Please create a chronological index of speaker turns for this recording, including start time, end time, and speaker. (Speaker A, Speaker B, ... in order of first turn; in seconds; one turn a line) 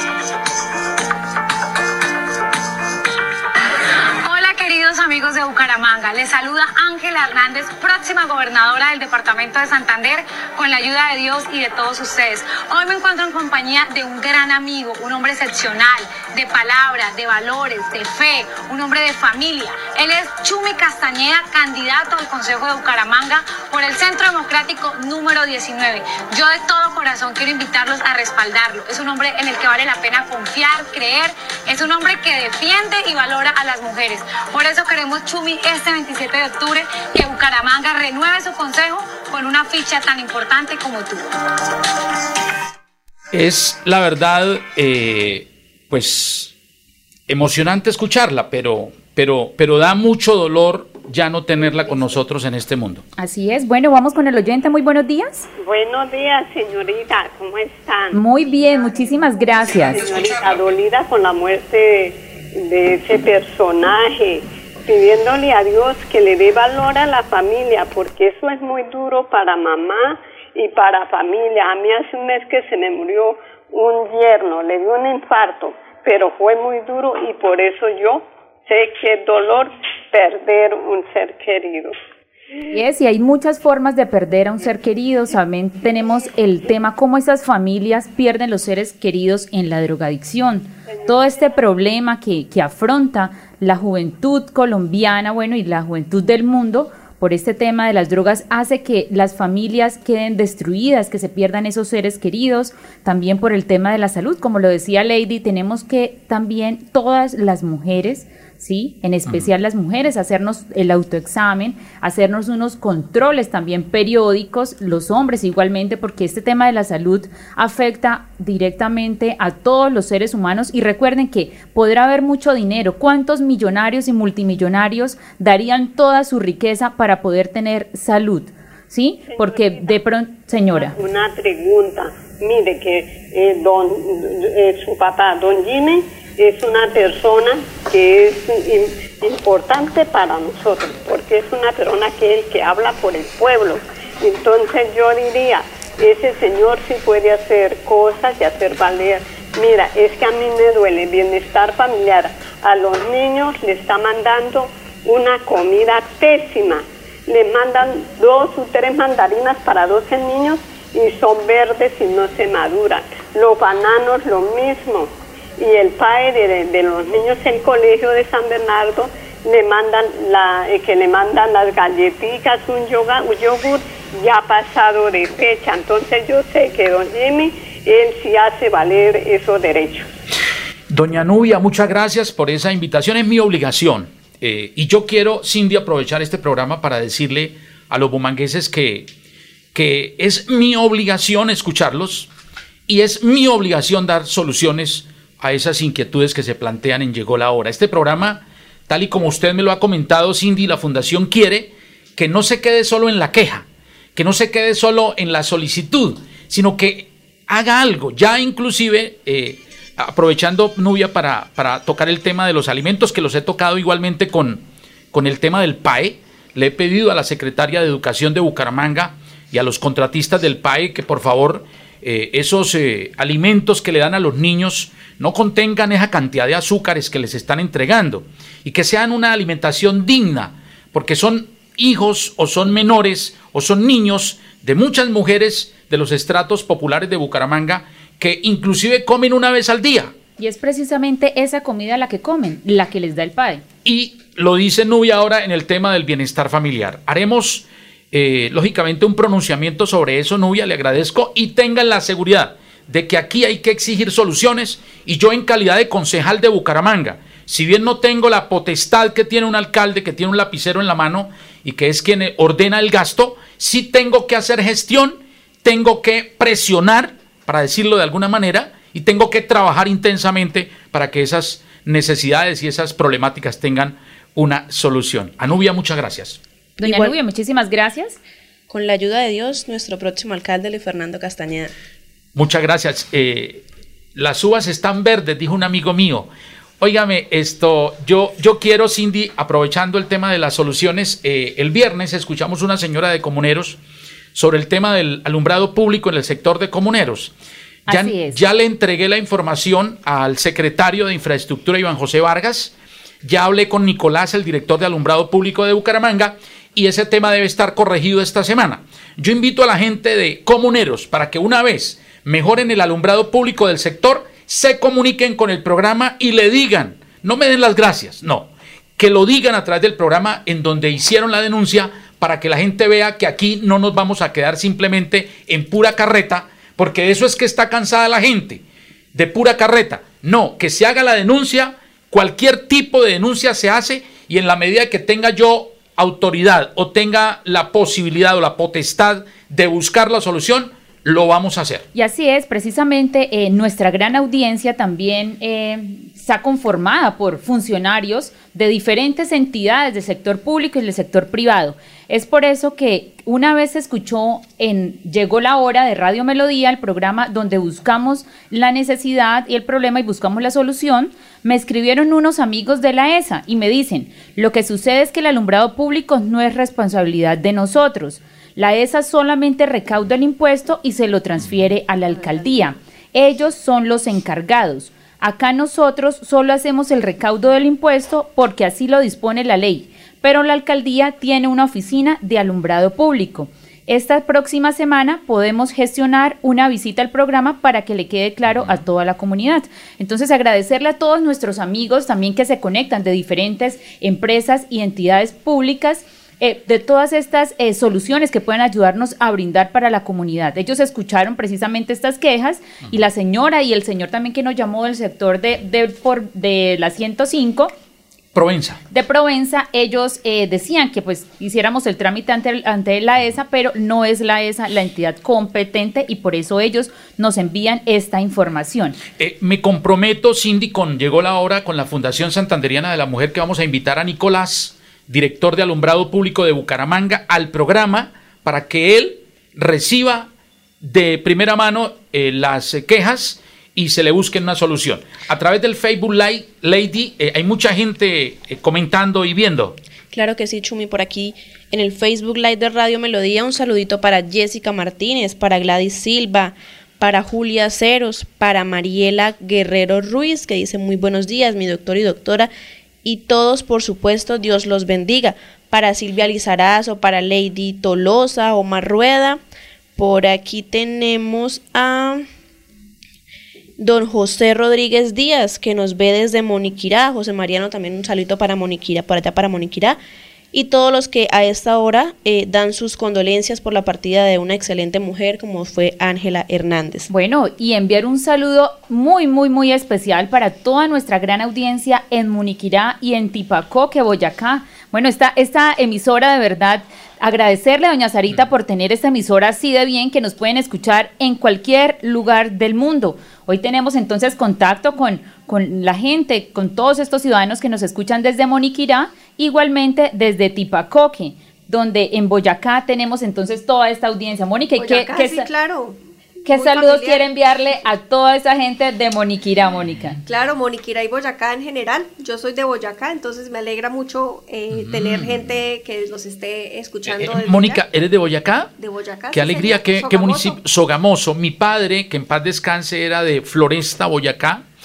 Speaker A: 4.2-41.2
Speaker B: 43.3-46.5
Speaker B: 47.3-53.0
Speaker C: 53.2-55.5
Speaker D: 55.6-58.2
Speaker C: 58.1-60.0
Speaker D: 59.9-82.0
Speaker C: 82.7-130.9
Speaker D: 129.3-130.0
Speaker D: 130.7-180.1
Speaker B: 180.9-189.1
Speaker B: 189.7-192.3
Speaker B: 192.9-240.1
Speaker C: 240.4-243.6
Speaker B: 243.8-276.4
Speaker E: 276.8-277.1
Speaker C: 276.8-278.2
Speaker E: 278.7-281.7
Speaker B: 282.3-283.6
Speaker B: 284.1-286.3
Speaker B: 286.8-293.8
Speaker B: 294.3-297.3
Speaker C: 297.9-298.4
Speaker B: 297.9-328.6
Speaker B: 329.1-341.9
Speaker C: 341.9-407.7
Speaker B: 408.3-408.8
Speaker C: 408.9-419.0
Speaker B: 419.2-430.3
Speaker B: 430.8-439.8
Speaker E: 440.1-452.5
Speaker E: 453.0-459.4
Speaker E: 459.9-462.2
Speaker E: 463.8-470.0
Speaker E: 470.5-477.1
Speaker C: 477.1-505.5
Speaker F: 504.8-506.0
Speaker C: 506.4-510.2
Speaker F: 506.5-507.2
Speaker F: 510.2-517.8
Speaker B: 514.7-515.3
Speaker B: 517.0-518.7
Speaker F: 518.8-520.6
Speaker B: 519.3-524.6